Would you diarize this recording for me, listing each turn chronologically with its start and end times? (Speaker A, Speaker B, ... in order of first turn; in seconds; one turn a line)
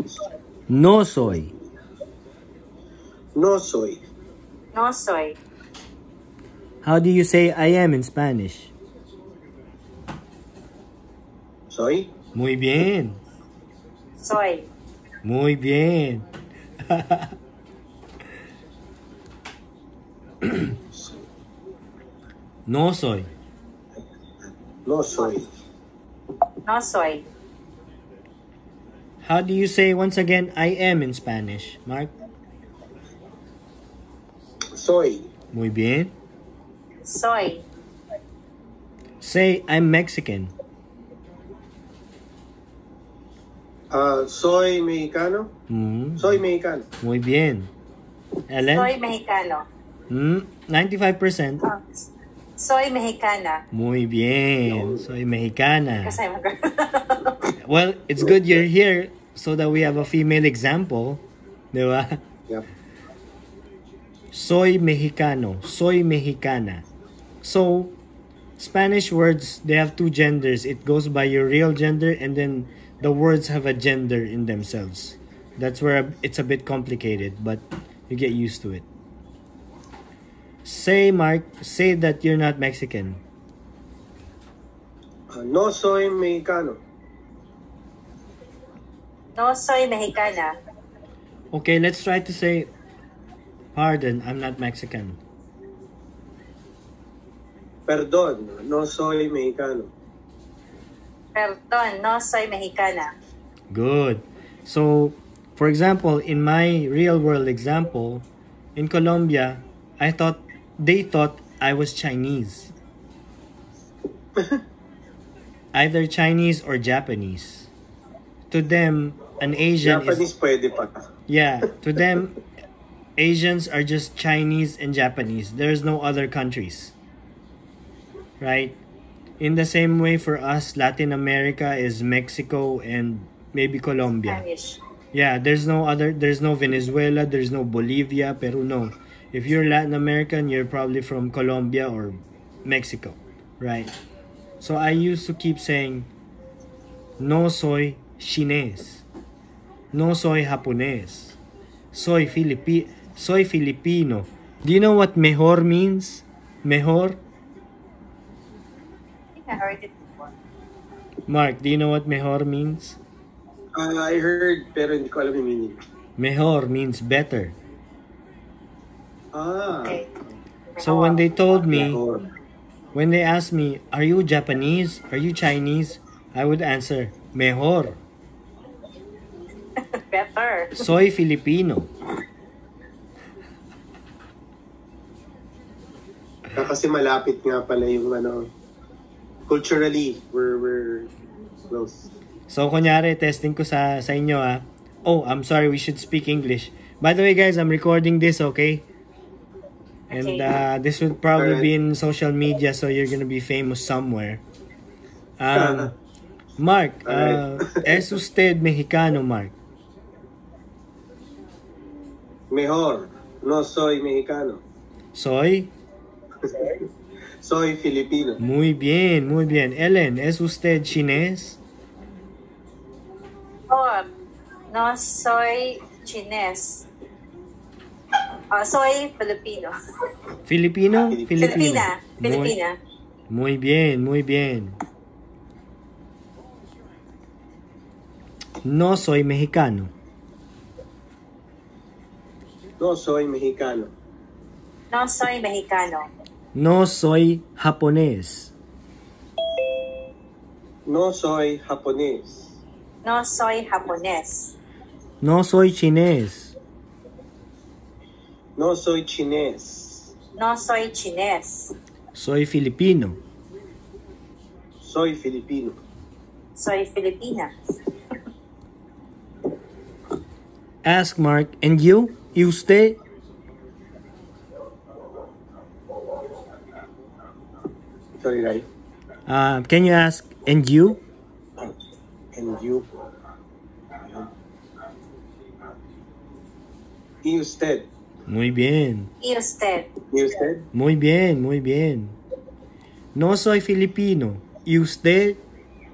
Speaker A: 0.7-1.5
Speaker B: 3.4-4.0
Speaker C: 4.7-5.4
Speaker A: 6.8-8.7
Speaker B: 11.7-12.1
Speaker A: 12.3-13.2
Speaker C: 14.2-14.7
Speaker A: 15.2-16.2
Speaker A: 16.9-17.3
Speaker B: 20.9-21.2
Speaker A: 22.7-23.3
Speaker B: 24.9-25.5
Speaker C: 26.6-27.2
Speaker A: 29.2-32.1
Speaker B: 34.7-35.3
Speaker A: 35.5-36.1
Speaker C: 37.0-37.6
Speaker A: 39.2-40.5
Speaker B: 43.9-45.5
Speaker A: 45.7-46.4
Speaker B: 46.2-46.9
Speaker A: 47.0-47.7
Speaker A: 48.5-48.9
Speaker C: 48.7-49.7
Speaker A: 50.1-51.6
Speaker C: 51.6-52.1
Speaker C: 52.6-53.6
Speaker A: 53.7-56.2
Speaker B: 54.7-55.0
Speaker C: 56.0-57.5
Speaker A: 57.6-62.2
Speaker A: 64.3-66.8
Speaker A: 67.4-68.0
Speaker A: 68.6-78.9
Speaker A: 80.7-83.2
Speaker B: 85.3-86.8
Speaker C: 89.3-90.5
Speaker A: 91.5-92.7
Speaker A: 93.7-95.2
Speaker B: 97.9-99.9
Speaker C: 101.3-103.1
Speaker A: 103.7-112.7
Speaker B: 114.4-114.6
Speaker A: 115.7-117.7
Speaker A: 118.5-120.2
Speaker B: 119.8-121.0
Speaker A: 121.3-122.4
Speaker A: 123.2-126.9
Speaker A: 128.4-128.8
Speaker A: 129.4-134.4
Speaker C: 134.3-134.8
Speaker A: 135.1-143.9
Speaker A: 144.6-146.1
Speaker A: 147.2-149.0
Speaker A: 149.9-151.4
Speaker A: 151.9-157.2
Speaker C: 159.4-160.3
Speaker A: 161.3-163.0
Speaker B: 163.8-165.8
Speaker A: 166.2-167.6
Speaker B: 169.3-170.0
Speaker C: 169.7-170.1
Speaker C: 170.8-171.2
Speaker A: 170.8-172.0
Speaker B: 171.7-172.3
Speaker A: 172.9-178.0
Speaker C: 179.8-180.8
Speaker A: 180.8-181.9
Speaker B: 186.5-188.5
Speaker B: 189.5-191.1
Speaker B: 191.7-192.1
Speaker A: 192.5-198.9
Speaker C: 200.1-200.4
Speaker A: 200.1-204.4
Speaker B: 201.3-201.7
Speaker A: 205.4-205.9
Speaker B: 205.5-205.9
Speaker A: 206.6-209.6
Speaker B: 207.1-208.0
Speaker B: 212.5-214.6
Speaker A: 215.2-215.7
Speaker B: 216.4-216.8
Speaker B: 217.4-218.4
Speaker A: 218.4-221.6
Speaker C: 223.7-224.1
Speaker C: 224.7-226.8
Speaker C: 228.5-229.7
Speaker A: 230.5-232.6
Speaker B: 231.1-231.7
Speaker C: 231.4-232.8
Speaker A: 233.3-234.8
Speaker A: 238.6-239.9
Speaker B: 242.8-243.9
Speaker C: 244.9-246.1
Speaker A: 246.6-248.5
Speaker B: 250.9-252.6
Speaker C: 253.0-254.6
Speaker A: 255.2-256.5
Speaker B: 258.6-260.1
Speaker C: 260.4-261.7
Speaker A: 262.1-263.2
Speaker B: 264.8-265.8
Speaker C: 266.6-267.5
Speaker A: 270.8-273.0
Speaker B: 278.2-278.7
Speaker A: 279.3-281.0
Speaker B: 282.3-283.1
Speaker B: 284.0-284.3
Speaker B: 287.2-287.9
Speaker A: 288.3-289.1
Speaker C: 289.2-289.9
Speaker B: 290.1-290.7
Speaker A: 290.7-292.2
Speaker A: 293.1-295.4